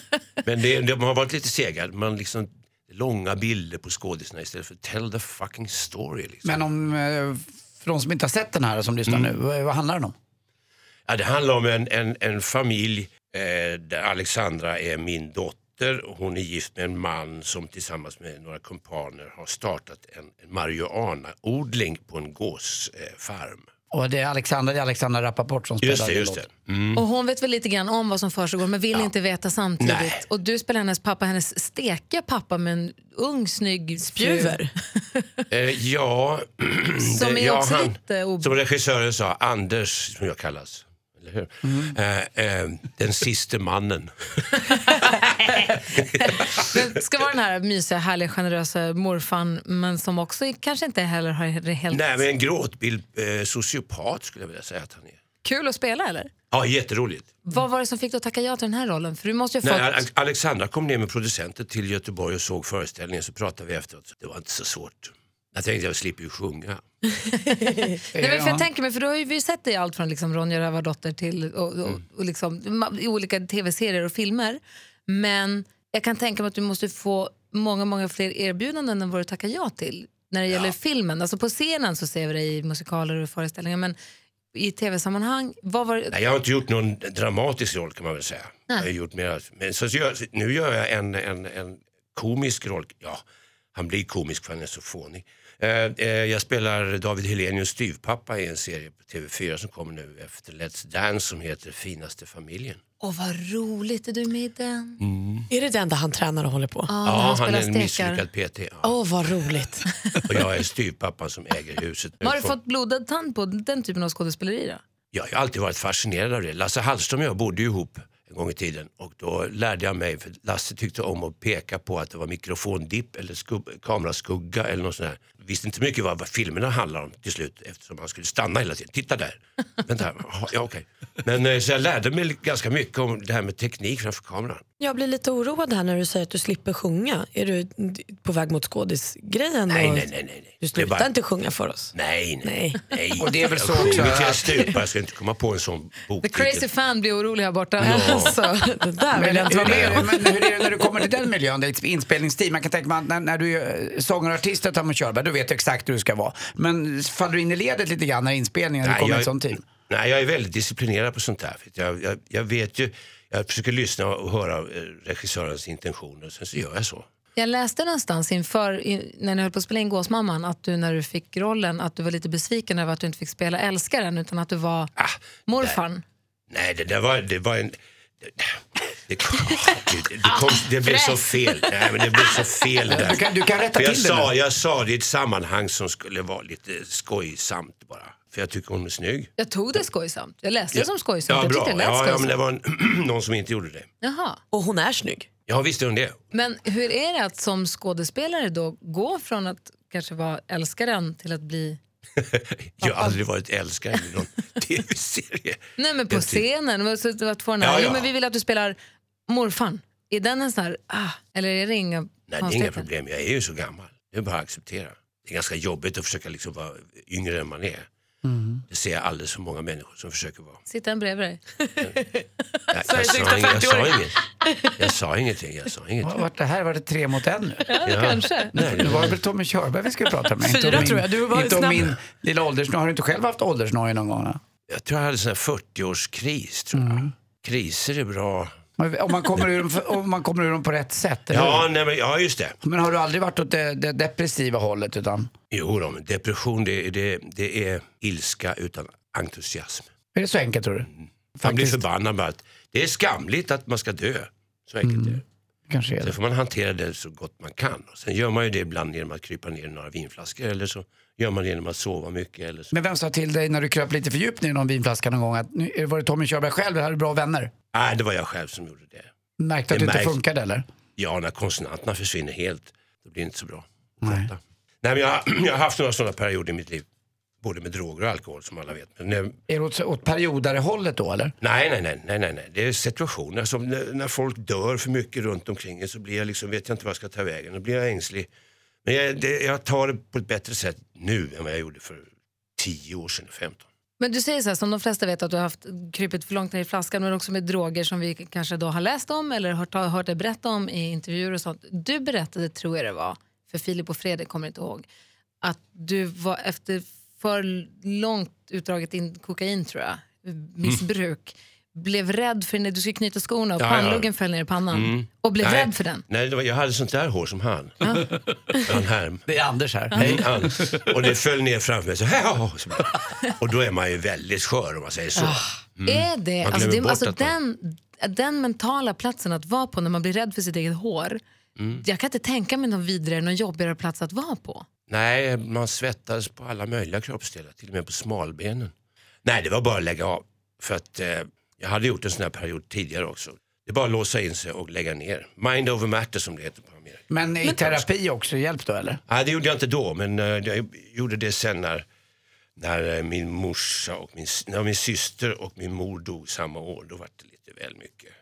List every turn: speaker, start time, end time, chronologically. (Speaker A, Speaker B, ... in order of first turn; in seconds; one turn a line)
Speaker A: 0.4-6.6
Speaker B: 6.4-10.1
Speaker A: 9.1-9.3
Speaker A: 11.1-23.7
Speaker B: 23.9-26.4
Speaker A: 25.8-27.0
Speaker C: 26.9-35.0
Speaker A: 29.8-30.2
Speaker D: 34.1-34.7
Speaker A: 35.5-46.8
Speaker C: 37.0-38.5
Speaker B: 41.6-42.0
Speaker C: 44.9-52.3
Speaker A: 51.9-55.2
Speaker C: 55.4-56.3
Speaker A: 56.5-57.4
Speaker C: 57.5-60.0
Speaker A: 59.6-66.8
Speaker C: 67.5-84.0
Speaker B: 68.1-68.7
Speaker C: 84.5-86.1
Speaker A: 86.1-93.2
Speaker A: 93.7-102.8
Speaker C: 103.0-105.0
Speaker A: 105.0-105.5
Speaker D: 105.5-106.9
Speaker C: 106.9-108.2
Speaker A: 107.0-109.5
Speaker D: 108.8-109.9
Speaker A: 110.2-112.5
Speaker C: 112.2-114.8
Speaker A: 115.1-134.6
Speaker D: 134.8-140.1
Speaker A: 139.7-141.1
Speaker D: 140.6-142.9
Speaker A: 141.9-146.7
Speaker B: 143.2-144.7
Speaker D: 143.8-144.0
Speaker C: 146.2-148.6
Speaker D: 147.8-151.1
Speaker A: 147.8-148.3
Speaker B: 149.1-159.6
Speaker A: 149.4-150.2
Speaker A: 158.8-167.1
Speaker C: 167.3-174.9
Speaker A: 175.0-175.8
Speaker C: 175.5-176.0
Speaker A: 176.5-189.3
Speaker C: 180.4-181.5
Speaker B: 182.9-184.3
Speaker C: 189.4-192.3
Speaker A: 190.7-193.9
Speaker C: 194.0-194.4
Speaker D: 194.5-195.3
Speaker A: 195.5-196.2
Speaker C: 196.3-201.8
Speaker A: 202.2-206.4
Speaker C: 202.8-203.2
Speaker C: 205.8-208.8
Speaker A: 207.6-208.1
Speaker C: 209.3-212.8
Speaker A: 212.3-217.8
Speaker B: 218.2-218.6
Speaker A: 218.7-220.6
Speaker C: 220.7-221.4
Speaker D: 221.6-222.2
Speaker A: 222.7-224.2
Speaker D: 222.8-224.7
Speaker A: 224.8-226.2
Speaker B: 226.0-227.7
Speaker C: 227.7-228.6
Speaker A: 227.8-229.2
Speaker B: 228.6-234.4
Speaker D: 230.3-231.9
Speaker A: 234.7-238.5
Speaker B: 236.7-237.1
Speaker B: 238.8-241.7
Speaker A: 241.3-242.6
Speaker B: 242.6-245.3
Speaker A: 245.5-249.9
Speaker B: 250.1-251.8
Speaker A: 251.4-255.2
Speaker B: 254.8-256.1
Speaker A: 256.0-262.7
Speaker B: 262.7-267.5
Speaker A: 267.7-269.1
Speaker B: 269.4-270.6
Speaker A: 269.7-270.2
Speaker A: 271.0-276.9
Speaker B: 274.0-274.3
Speaker A: 277.4-279.4
Speaker B: 279.5-281.3
Speaker A: 281.4-288.3
Speaker A: 288.8-293.6
Speaker C: 294.0-304.9
Speaker C: 305.4-316.0
Speaker A: 313.6-314.1
Speaker A: 314.7-319.2
Speaker B: 319.3-320.8
Speaker A: 319.9-327.3
Speaker D: 325.2-325.4
Speaker C: 325.9-331.2
Speaker A: 331.6-331.8
Speaker C: 331.8-334.6
Speaker A: 334.9-338.7
Speaker A: 339.2-347.8
Speaker B: 347.1-349.0
Speaker A: 349.1-351.8
Speaker A: 352.6-358.1